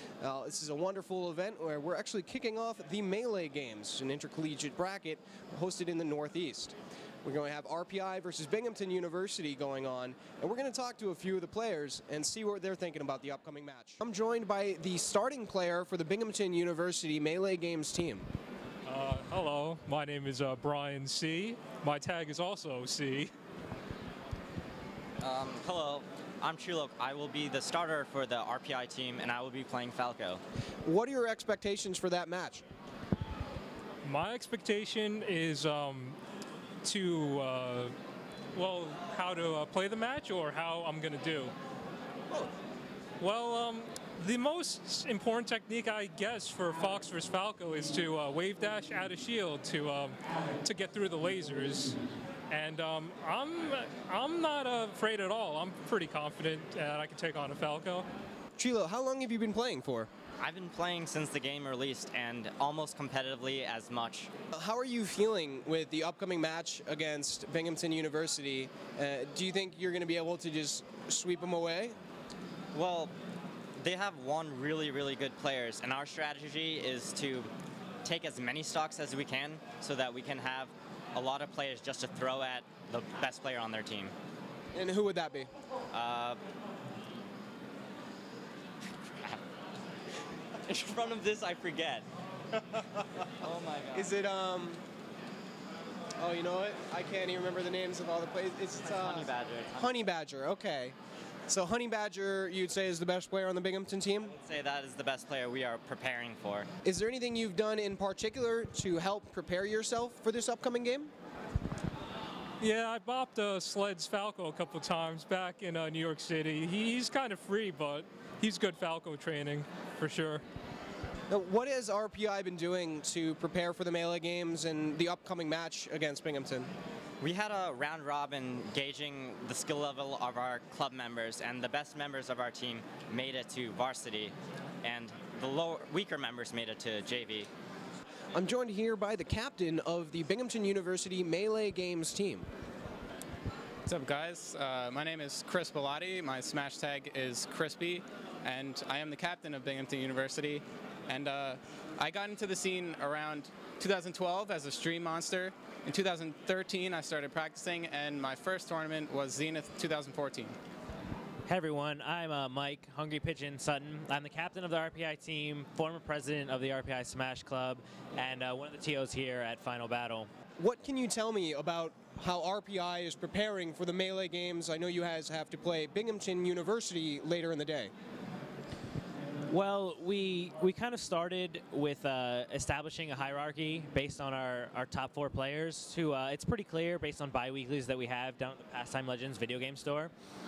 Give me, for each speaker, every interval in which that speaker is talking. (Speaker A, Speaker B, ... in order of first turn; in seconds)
Speaker A: 0.2-18.3, 30.9-32.7, 58.6-60.1, 64.5-72.0, 84.7-85.5, 93.9-94.8, 96.2-101.0, 101.5-104.3, 106.8-111.1, 121.3-126.7, 138.3-142.5, 170.6-177.9
Speaker B: 18.9-23.3, 34.0-36.2, 36.8-37.9, 38.5-41.5, 43.2-52.0, 52.5-58.1, 112.6-120.4
Speaker C: 25.2-30.4, 60.4-64.3, 72.7-73.1, 73.8-77.5, 78.0-84.1, 85.9-86.4, 89.1-89.4, 90.6-92.1, 93.4-94.1, 98.8-99.9, 104.3-106.7, 127.2-137.5
Speaker D: 143.9-160.6
Speaker E: 161.5-170.3, 179.5-190.1